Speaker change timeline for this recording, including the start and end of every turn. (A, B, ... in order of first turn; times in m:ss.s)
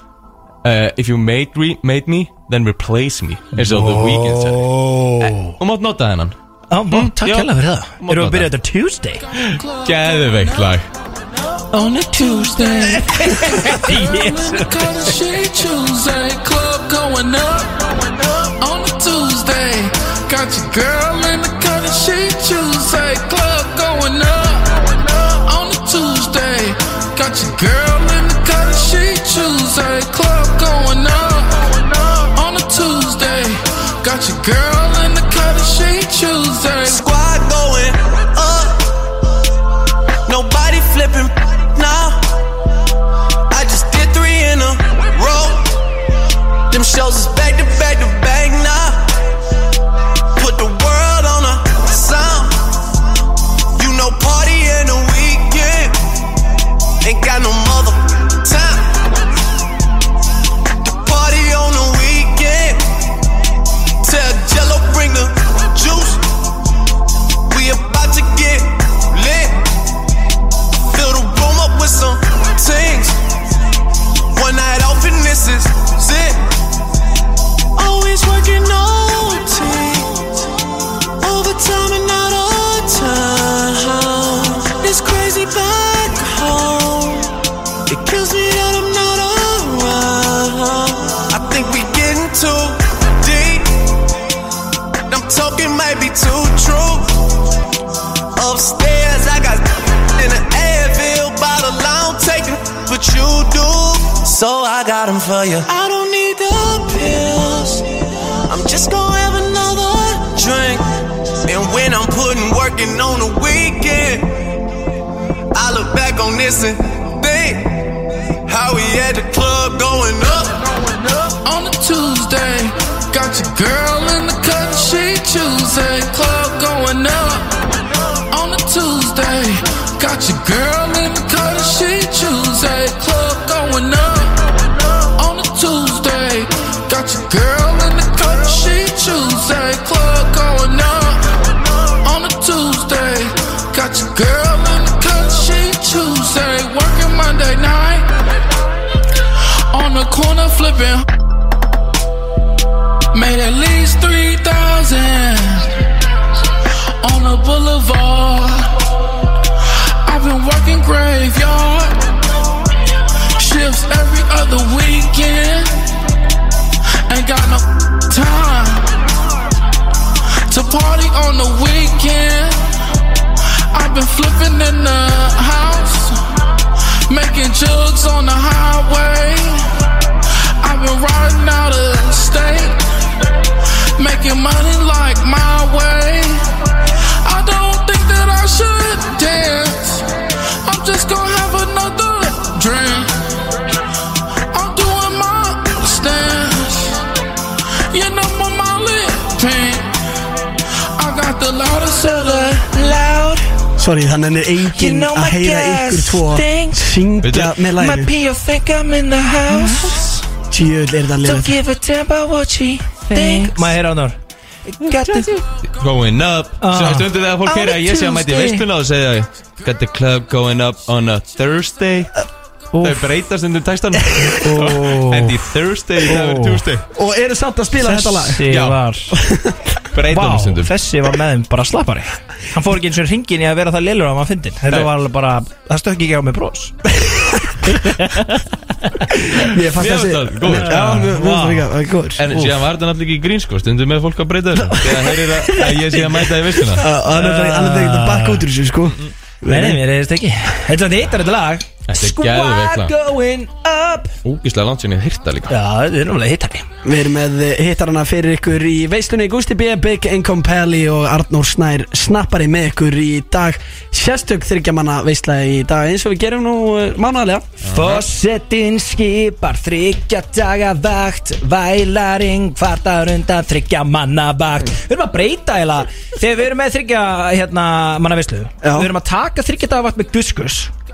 0:00.6-0:06.4 A
0:03.6-0:05.6 B
0:06.7-0:09.2 B
0:06.9-0:08.5 A
0:09.4-0:10.9 A
0:11.7-0:15.1 B
0:12.1-0:37.0 C
0:36.8-0:38.9 D
0:40.3-0:42.3 D
0:43.5-0:45.8 D
0:46.7-0:49.2 D
0:50.4-0:52.8 D
0:53.8-0:56.0 D
0:57.0-0:59.0 D
1:00.8-1:02.9 D
1:04.0-1:06.3 D
1:07.5-1:09.7 D
1:10.8-1:13.2 D
1:14.3-1:16.5 D
1:17.8-1:20.6 D
1:21.2-1:33.9 D
1:35.1-1:37.2 D
1:38.4-1:54.5 D
1:55.5-2:00.7 D
2:01.4-2:07.5 C
2:08.3-2:14.5 C
2:15.2-2:21.2 C
2:22.0-2:28.1 C
2:29.7-2:31.0 C
2:33.1-2:35.8 C
2:37.0-2:38.8 C
2:40.0-2:42.0 C
2:43.4-2:45.8 C
2:47.1-2:48.9 C
2:50.5-2:52.6 C
2:53.7-2:56.2 C
2:57.1-2:59.6 C
3:00.6-3:02.8 C
3:04.0-3:06.4 C
3:07.2-3:10.1 C
3:10.6-3:13.1 C
3:14.5-3:17.0 C
3:17.9-3:19.9 C
3:21.0-3:22.8 C
3:22.4-3:23.4 B
3:23.8-3:28.1 E
3:24.7-3:26.9 B
3:27.2-3:27.5 A
3:27.8-3:30.2 B
3:30.5-3:31.6 E
3:31.2-3:35.4 B
3:35.1-3:42.2 A
3:36.6-3:38.6 B
3:42.7-3:43.1 B
3:42.8-3:46.8 A
3:44.4-3:45.4 B
3:46.1-3:46.6 B
3:46.9-3:48.5 E
3:47.8-3:49.2 B
3:48.5-3:48.8 A
3:49.1-3:49.6 E
3:49.9-3:50.7 A
3:50.1-3:56.7 B
3:57.0-3:57.3 E
3:57.8-3:58.4 B
3:59.3-4:02.3 E
3:59.7-4:01.1 A
4:00.5-4:01.7 B
4:02.2-4:06.9 A
4:05.6-4:06.0 B
4:06.7-4:09.8 E
4:07.0-4:08.5 B
4:09.5-4:14.2 B
4:11.9-4:12.9 A
4:14.2-4:15.6 A
4:15.5-4:16.7 B
4:16.8-4:27.5 E
4:27.6-4:28.0 A
4:27.6-4:40.7 B
4:38.6-4:38.9 E